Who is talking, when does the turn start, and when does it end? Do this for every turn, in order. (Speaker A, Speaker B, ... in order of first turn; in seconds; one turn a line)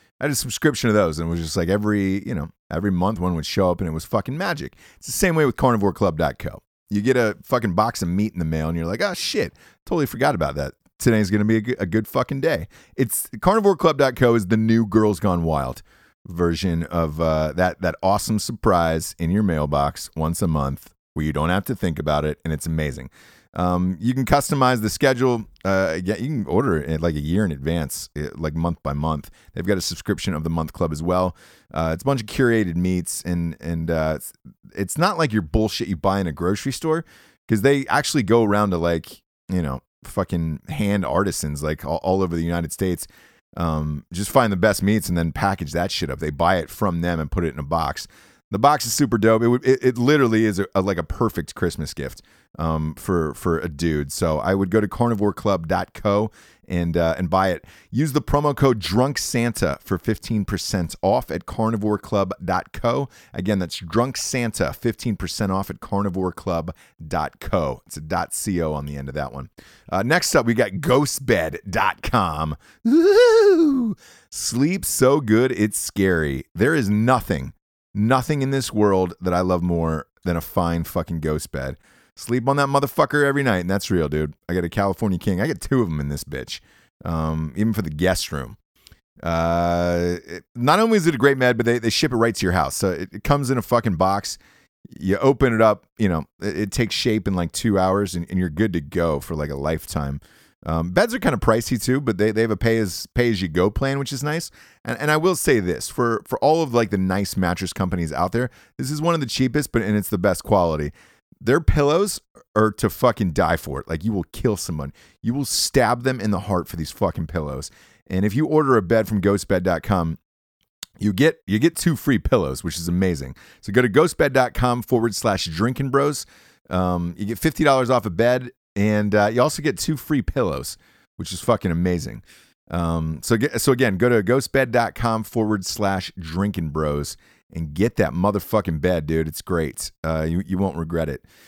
Speaker A: 0.2-88.6
Speaker A: 89.2-120.2
Speaker A: 121.0-141.2